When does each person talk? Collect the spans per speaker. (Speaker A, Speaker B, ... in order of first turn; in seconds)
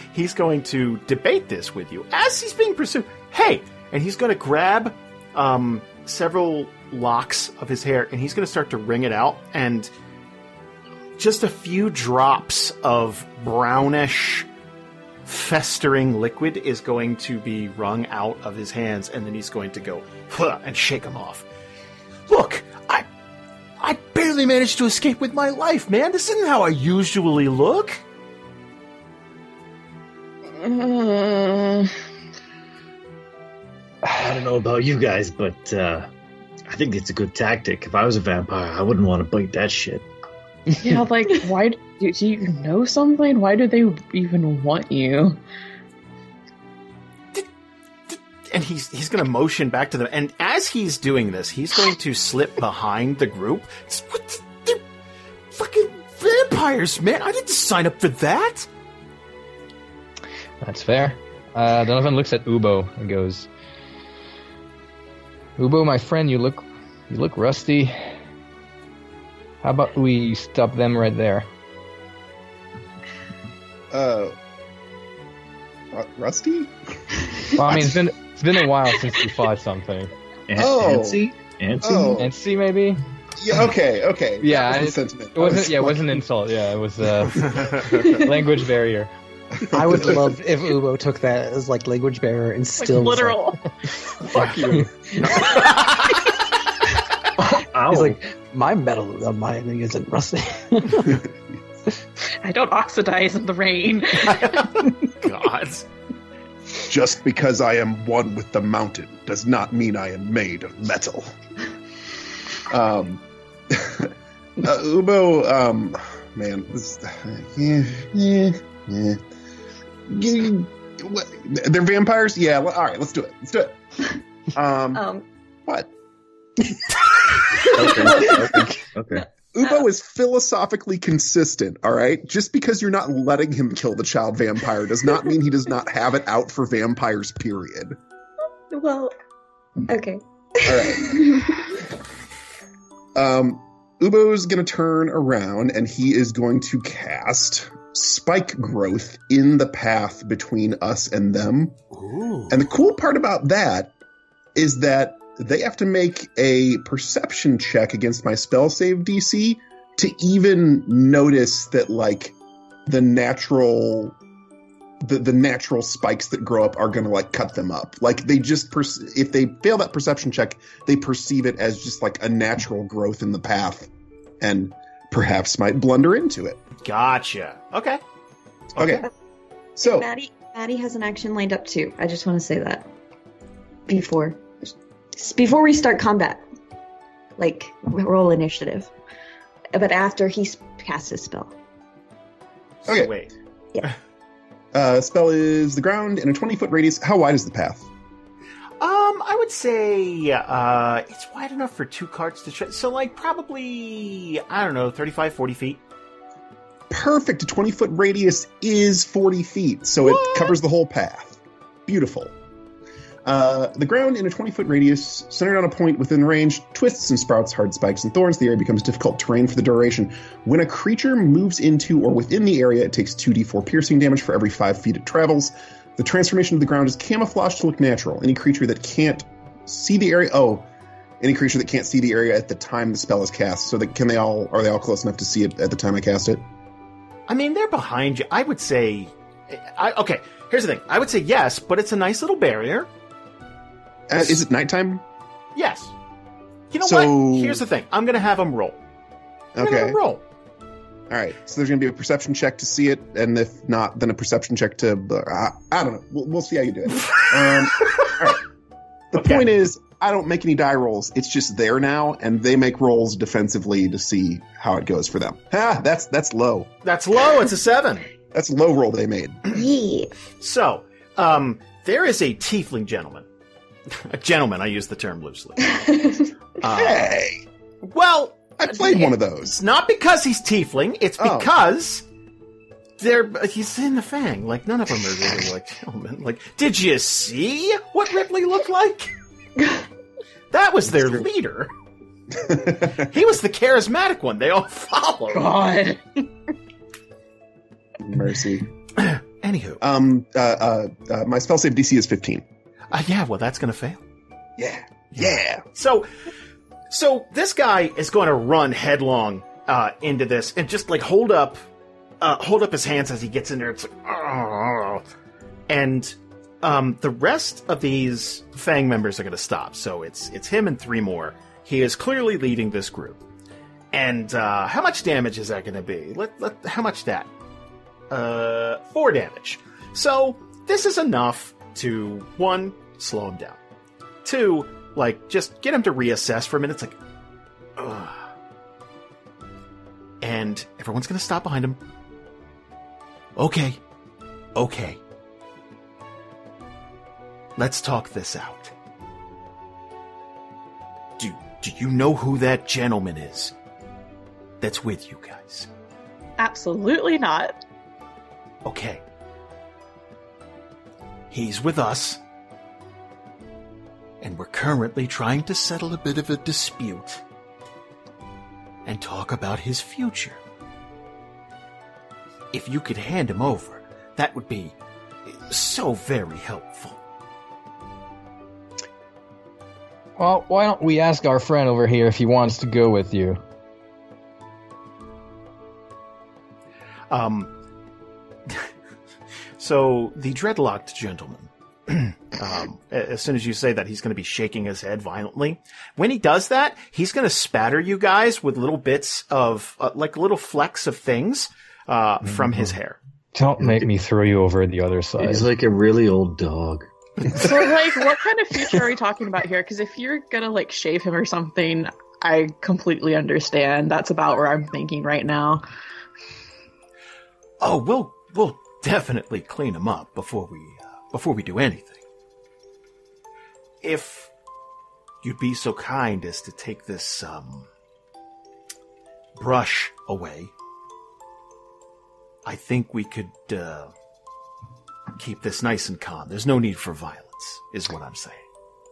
Speaker A: 0.1-9.9, 11.2-14.5, 15.3-21.4, 22.3-23.1, 23.8-28.0, 48.1-54.8, 55.5-58.7, 87.5-88.0, 94.3-96.4, 104.2-105.9, 151.9-152.6, 176.8-178.0, 192.8-193.3, 198.8-205.8, 210.0-210.6, 237.3-242.9, 245.6-245.9, 246.7-248.8, 249.6-250.2, 257.1-258.1, 259.1-259.5, 266.9-268.1, 270.4-273.3, 273.9-276.0, 276.6-277.1, 277.8-282.1, 283.0-289.1, 290.5-291.7, 293.0-295.7, 299.0-299.8, 302.9-304.0, 305.1-306.1, 306.9-311.6, 312.2-315.1, 315.7-323.2, 323.9-327.3, 328.1-333.6, 334.2-337.0, 337.8-338.2, 340.2-341.8, 343.4-343.8, 344.6-345.0, 347.6-348.7, 351.2-353.5, 354.6-355.7, 358.6-359.0, 361.3-362.2, 364.2-367.2, 368.9-370.4, 372.5-374.8, 375.3-377.0, 387.1-387.5, 389.6-403.0, 417.6-422.0, 423.8-424.3, 425.2-427.7, 429.4-430.5, 432.4-433.9, 435.2-438.4
Speaker B: 30.5-31.9, 40.8-45.4, 92.8-93.7, 102.4-104.8, 295.3-296.0, 356.4-357.6, 407.3-415.6
Speaker C: 34.1-36.1, 36.7-40.1, 80.5-82.2, 97.7-98.2, 127.7-129.3, 403.6-403.9, 405.2-408.0
Speaker D: 60.6-63.5, 65.6-68.2, 69.6-71.5, 77.5-80.1, 82.2-83.0, 84.4-89.1, 380.2-383.4, 403.4-405.5
Speaker E: 73.9-74.3, 75.9-78.0, 80.6-81.2, 81.8-82.3, 83.4-86.2, 89.6-90.3, 106.9-111.3, 112.7-119.2, 120.1-123.8, 124.5-125.0, 126.7-127.4, 129.5-138.0, 140.7-141.2, 143.2-151.8, 152.5-153.9, 154.6-164.2, 165.0-173.9, 174.4-176.6, 178.8-179.1, 179.8-180.1, 192.9-193.1, 194.7-197.9, 206.9-212.3, 213.2-230.7, 231.2-236.4, 244.1-245.0, 246.8-247.6, 249.6-250.0, 251.1-258.4, 259.1-266.7, 268.3-269.4, 276.6-277.4, 278.6-279.6, 281.2-281.5, 292.4-293.1, 298.0-298.7, 299.8-302.5, 304.6-305.6
Speaker F: 89.7-93.5, 97.4-101.2
Speaker G: 124.9-125.2, 127.5-128.7, 138.7-139.1, 139.9-141.8, 178.8-179.1, 179.8-182.9, 183.9-184.4, 185.2-186.4, 187.4-188.9, 189.7-191.5, 269.5-270.1, 275.8-276.2